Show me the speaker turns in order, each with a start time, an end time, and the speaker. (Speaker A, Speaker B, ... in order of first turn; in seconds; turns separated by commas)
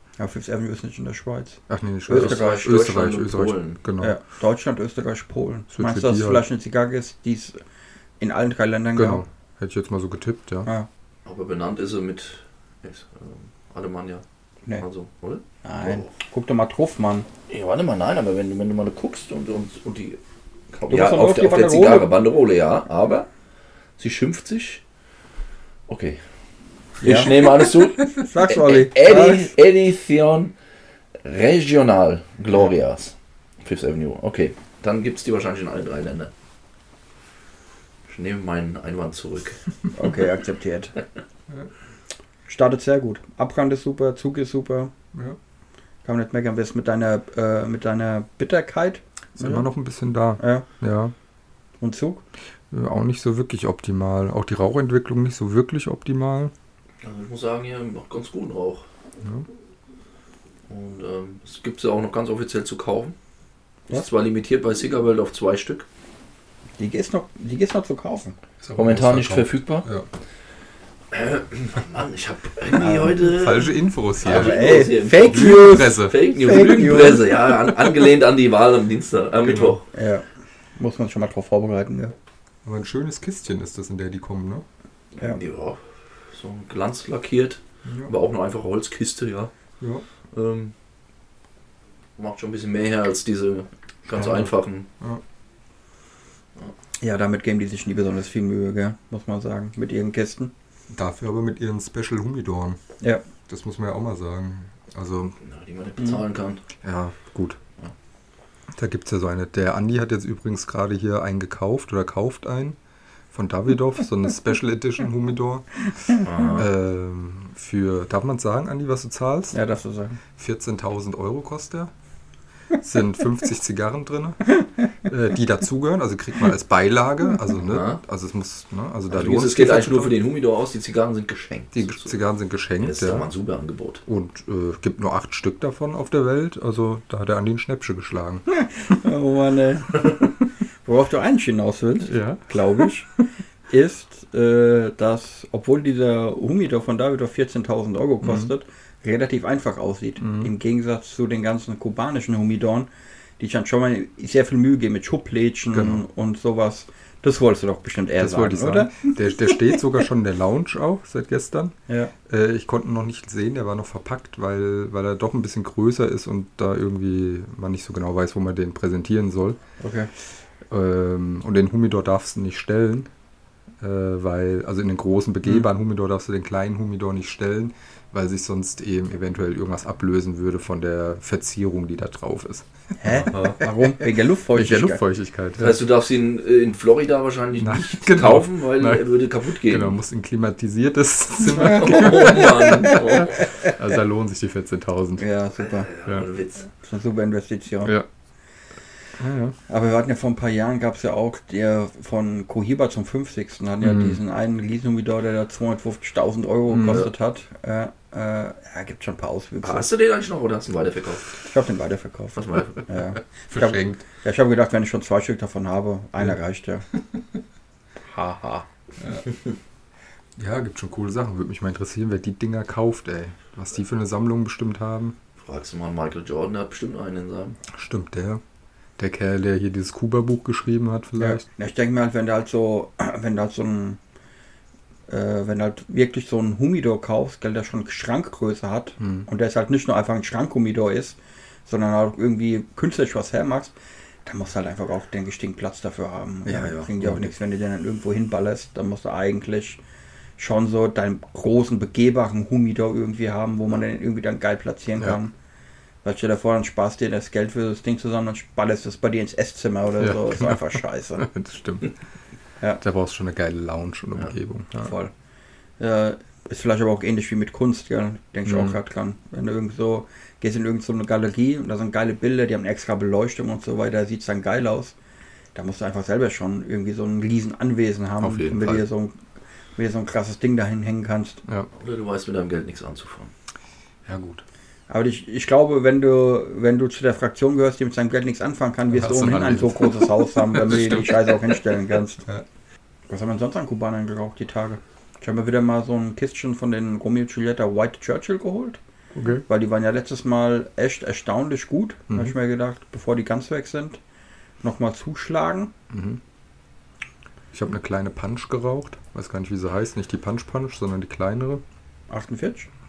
Speaker A: 0.2-2.7, Speaker B: 1.7-4.2, Speaker C: 2.1-3.8, Speaker A: 4.0-7.6, Speaker B: 5.7-6.4, Speaker A: 8.2-9.2, Speaker B: 8.9-10.7, Speaker C: 11.2-14.2, Speaker C: 14.8-16.1, Speaker A: 15.6-17.3, Speaker C: 17.5-20.2, Speaker C: 20.7-23.3, Speaker A: 20.9-22.1, Speaker C: 24.0-24.8, Speaker C: 25.9-26.2, Speaker C: 27.0-30.5, Speaker A: 27.0-27.6, Speaker A: 28.2-29.5, Speaker C: 31.2-36.3, Speaker C: 38.0-39.6, Speaker A: 39.9-40.9, Speaker A: 42.5-44.9, Speaker A: 46.0-49.7, Speaker B: 49.4-51.1, Speaker A: 50.4-50.6, Speaker A: 51.8-52.2, Speaker B: 52.7-56.5, Speaker C: 57.0-58.9, Speaker B: 59.2-59.5, Speaker C: 60.7-63.1, Speaker C: 63.9-65.9, Speaker A: 66.8-68.3, Speaker B: 68.6-70.1, Speaker C: 68.8-69.9, Speaker C: 71.1-79.8, Speaker A: 72.7-73.2, Speaker B: 72.9-76.2, Speaker A: 74.2-77.4, Speaker B: 79.4-79.8, Speaker A: 79.9-82.1, Speaker B: 82.6-84.6, Speaker C: 85.2-89.5, Speaker B: 87.8-88.1, Speaker B: 89.8-90.0, Speaker C: 90.3-90.7, Speaker C: 92.2-94.9, Speaker B: 94.1-95.2, Speaker A: 97.0-100.5, Speaker B: 100.9-102.8, Speaker B: 103.5-105.4, Speaker C: 105.4-106.7, Speaker B: 106.8-107.6, Speaker B: 108.7-112.8, Speaker B: 113.3-119.5, Speaker C: 116.2-116.7, Speaker A: 119.5-120.2, Speaker B: 120.3-121.9, Speaker B: 122.8-130.2, Speaker C: 127.7-128.0, Speaker C: 129.1-132.2, Speaker B: 131.7-133.3, Speaker C: 132.8-134.0, Speaker B: 134.1-138.4, Speaker A: 138.8-140.2, Speaker A: 140.8-143.1, Speaker B: 142.1-142.9, Speaker A: 143.7-159.5, Speaker B: 148.2-148.5, Speaker B: 150.2-150.5, Speaker B: 155.7-156.0, Speaker B: 158.2-169.6, Speaker A: 161.9-162.1, Speaker A: 169.8-170.1, Speaker B: 170.7-173.1, Speaker B: 173.8-182.9, Speaker A: 183.0-185.0, Speaker C: 183.2-183.6, Speaker B: 184.5-185.8, Speaker C: 185.6-189.9, Speaker B: 187.6-189.1, Speaker B: 189.6-195.2, Speaker C: 191.5-193.6, Speaker A: 191.6-192.2, Speaker A: 195.2-195.9, Speaker C: 195.6-196.7, Speaker A: 196.8-197.9, Speaker B: 199.2-199.6, Speaker A: 199.7-209.9, Speaker B: 203.8-204.2, Speaker B: 206.7-207.1, Speaker C: 209.6-211.3, Speaker A: 211.4-216.8, Speaker C: 212.3-212.9, Speaker B: 213.5-214.0, Speaker A: 218.1-218.7, Speaker B: 220.4-225.2, Speaker C: 225.4-227.6, Speaker B: 227.7-228.4, Speaker B: 229.0-231.4, Speaker A: 231.2-234.0, Speaker A: 235.1-249.8, Speaker B: 239.0-239.3, Speaker B: 246.4-247.3, Speaker A: 250.4-255.3, Speaker A: 256.0-261.2, Speaker B: 260.0-261.9, Speaker B: 262.8-264.9, Speaker A: 264.8-265.1, Speaker A: 265.8-274.9, Speaker B: 268.4-268.8, Speaker A: 275.5-279.2, Speaker C: 278.2-278.8, Speaker A: 279.8-281.4, Speaker C: 281.7-283.3, Speaker B: 284.1-284.4, Speaker A: 284.9-292.2, Speaker B: 288.9-291.2, Speaker A: 293.1-298.8, Speaker B: 299.1-299.4, Speaker A: 299.5-304.0, Speaker B: 302.1-302.3, Speaker A: 304.6-305.7, Speaker B: 305.9-306.2, Speaker B: 307.5-311.6, Speaker A: 312.1-312.7